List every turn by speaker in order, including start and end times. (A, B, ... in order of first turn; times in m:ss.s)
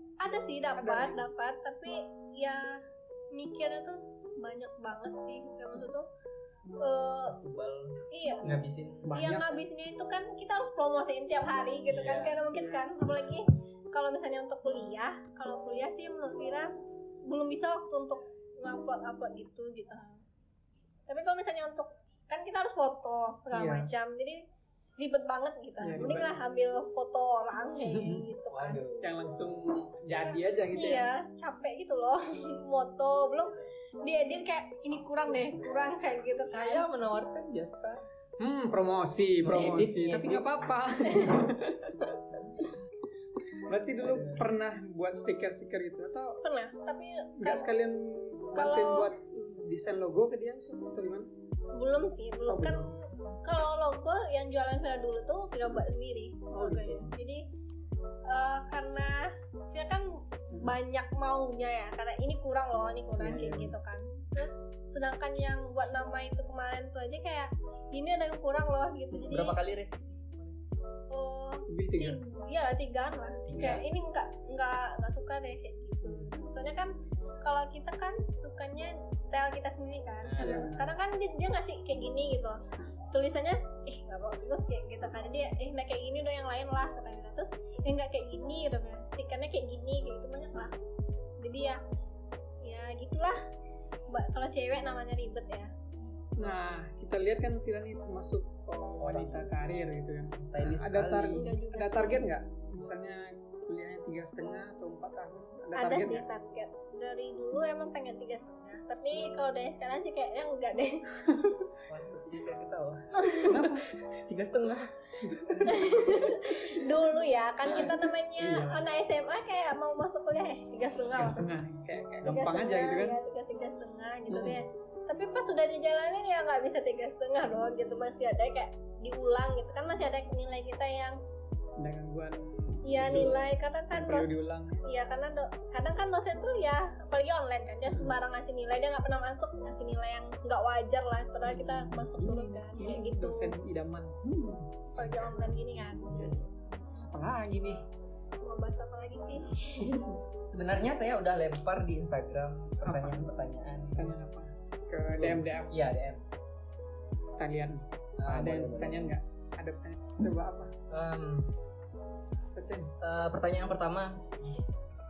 0:00.2-0:06.1 A
0:00.8-0:01.2 B
0:06.8-0:07.4 A
0:07.1-0:09.3 C
0:08.1-0:08.6 A
0:09.0-0:09.6 B
0:09.1-0:20.2 A
0:11.9-0:12.5 C
0:12.5-0:12.8 B
0:21.1-0:24.4 A
0:23.5-0:23.9 B
0:25.0-0:28.8 A
0:25.8-0:26.4 B
0:28.5-0:29.1 C
0:29.0-0:31.1 B
0:30.3-0:36.8 A
0:36.5-0:38.0 C
0:38.4-0:42.0 B
0:39.4-0:40.8 C
0:41.1-0:41.4 A
0:43.7-0:46.4 B
0:44.0-0:44.5 C
0:46.4-0:47.7 A
0:47.4-0:51.3 B
0:48.5-0:49.1 A
0:51.7-0:57.5 A
0:52.5-0:53.0 B
0:56.5-0:57.2 B
0:58.3-1:09.6 A
1:03.2-1:03.7 B
1:09.3-1:10.6 C
1:11.1-1:30.8 A
1:11.7-1:12.2 B
1:13.5-1:13.8 C
1:13.5-1:13.8 B
1:16.0-1:16.3 B
1:20.2-1:20.7 C
1:20.4-1:20.9 B
1:31.4-1:31.8 A
1:32.6-1:33.4 A
1:34.1-1:35.7 A
1:36.4-1:46.2 B
1:39.0-1:39.5 C
1:40.4-1:41.5 C
1:41.3-1:42.3 A
1:45.7-1:51.4 A
1:51.9-1:56.2 C
1:53.2-1:53.5 A
1:53.4-1:53.9 B
1:55.6-2:01.5 A
1:57.7-1:58.8 B
2:01.1-2:03.2 B
2:02.2-2:11.2 A
2:04.3-2:04.6 B
2:11.8-2:14.8 B
2:12.8-2:23.5 A
2:13.0-2:13.3 C
2:17.8-2:18.2 B
2:21.4-2:25.3 B
2:24.9-2:26.2 A
2:26.1-2:27.8 B
2:28.4-2:30.1 A
2:30.5-2:34.1 C
2:32.8-2:33.3 B
2:33.9-2:35.7 B
2:35.2-2:36.2 C
2:37.4-2:40.7 B
2:38.2-2:39.1 C
2:40.9-2:41.5 C
2:42.5-2:42.9 B
2:43.0-2:44.5 C